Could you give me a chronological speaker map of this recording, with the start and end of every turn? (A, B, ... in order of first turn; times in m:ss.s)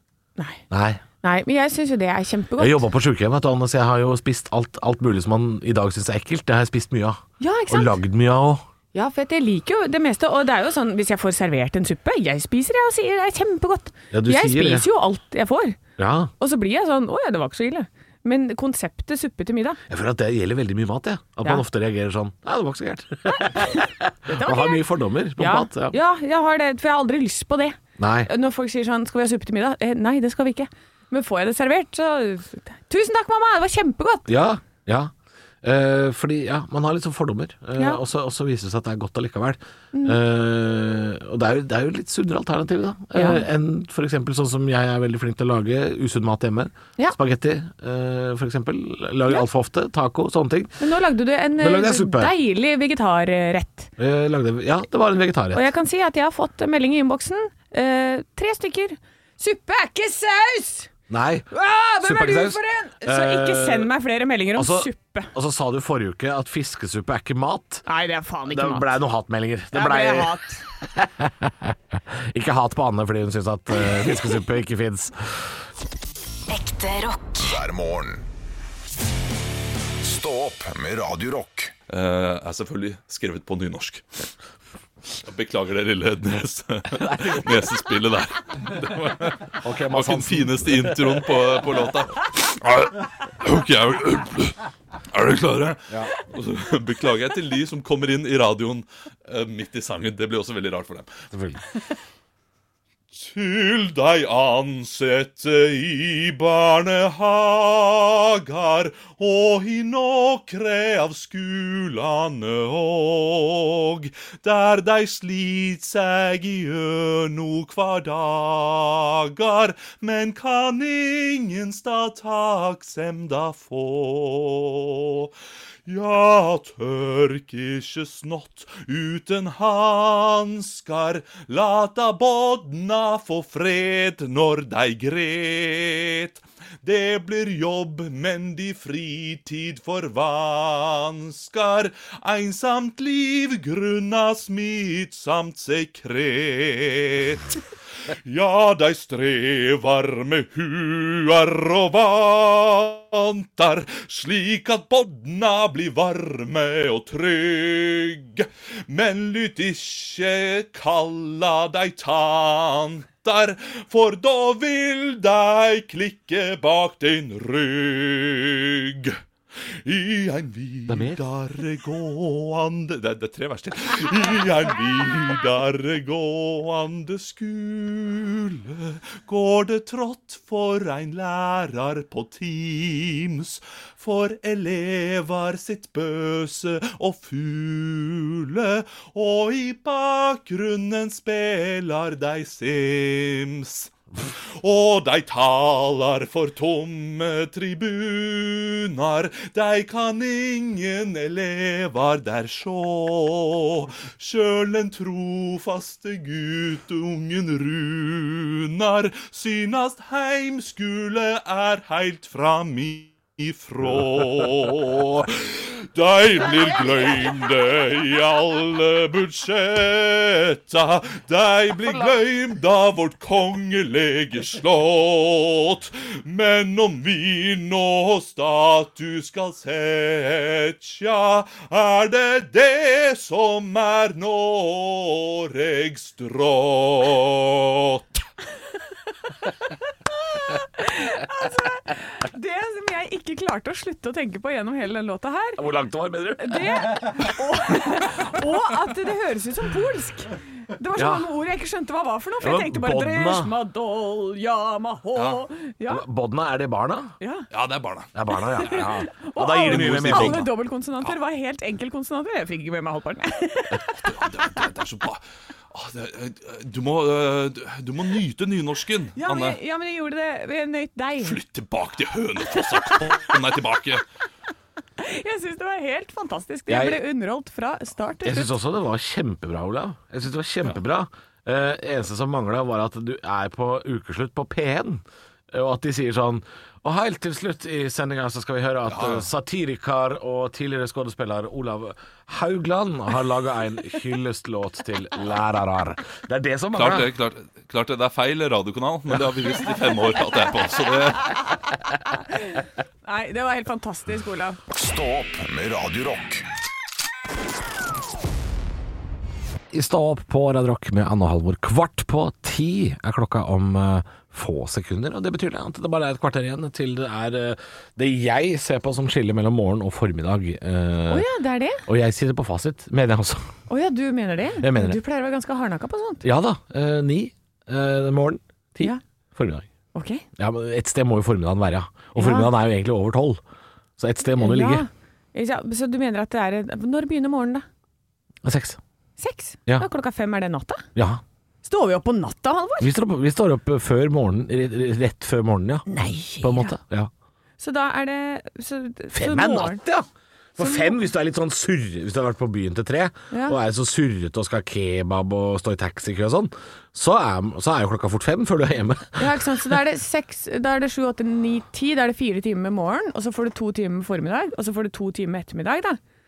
0:00.7-0:01.0 A
0:01.2-0:02.8 B
0:02.6-0:08.6 A
0:07.4-0:08.0 B
0:08.9-0:15.8 B
0:14.1-0:14.9 A
0:16.0-0:16.3 A
0:16.4-0:19.8 B
0:19.9-0:26.0 A
0:23.3-0:24.8 B
0:25.4-0:34.3 B
0:28.0-0:28.3 A
0:34.3-0:50.8 A
0:39.9-0:40.2 B
0:43.1-0:43.4 B
0:50.8-0:53.9 B
0:51.6-0:52.3 A
0:54.0-0:55.7 A
0:55.5-1:00.9 B
1:01.1-1:01.5 A
1:01.5-1:05.3 B
1:02.0-1:03.9 A
1:04.5-1:07.8 A
1:07.9-1:09.0 B
1:08.5-1:15.5 A
1:09.7-1:10.6 B
1:13.8-1:14.4 B
1:16.5-1:18.3 C
1:20.0-1:21.7 C
1:21.9-1:24.1 D
1:25.1-1:41.2 D
1:27.0-1:27.6 A
1:29.6-1:31.1 A
1:41.3-1:41.6 A
1:43.1-2:05.3 D
2:05.9-2:27.6 D
2:28.1-2:49.2 D
2:49.9-3:58.0 D
2:50.9-2:51.2 A
4:00.3-4:05.7 B
4:05.6-4:07.1 A
4:06.4-4:16.0 B
4:11.0-4:11.3 A
4:12.4-4:13.5 A
4:15.2-4:15.4 D
4:15.9-4:17.1 A
4:17.2-4:17.5 B
4:17.5-4:18.1 D
4:18.1-4:20.5 A
4:18.5-4:24.3 B
4:19.6-4:20.5 D
4:24.0-4:29.6 D
4:29.2-4:31.4 B
4:31.2-4:34.0 D
4:35.0-4:38.6 B
4:36.7-4:37.0 A
4:38.2-4:57.1 A
4:48.9-4:49.3 D
4:56.8-5:01.5 D
5:02.1-5:04.6 B
5:04.7-5:06.4 C
5:09.7-5:21.3 A
5:21.1-5:21.9 B
5:21.9-5:23.5 A
5:23.7-5:26.2 B
5:24.6-5:25.0 A
5:26.2-5:29.7 A
5:29.9-5:30.2 B
5:30.4-5:33.4 A
5:32.2-5:32.5 B
5:34.0-5:34.8 A
5:34.4-5:37.6 B
5:38.4-5:38.8 A
5:39.2-5:40.9 B
5:41.0-5:41.2 A
5:41.6-5:42.9 B
5:42.8-5:45.9 A
5:45.9-5:46.7 B
5:46.4-5:47.1 A
5:47.6-5:49.8 B
5:49.1-5:59.8 A
5:50.6-5:50.9 B
5:53.3-5:53.6 B
5:59.2-6:06.0 B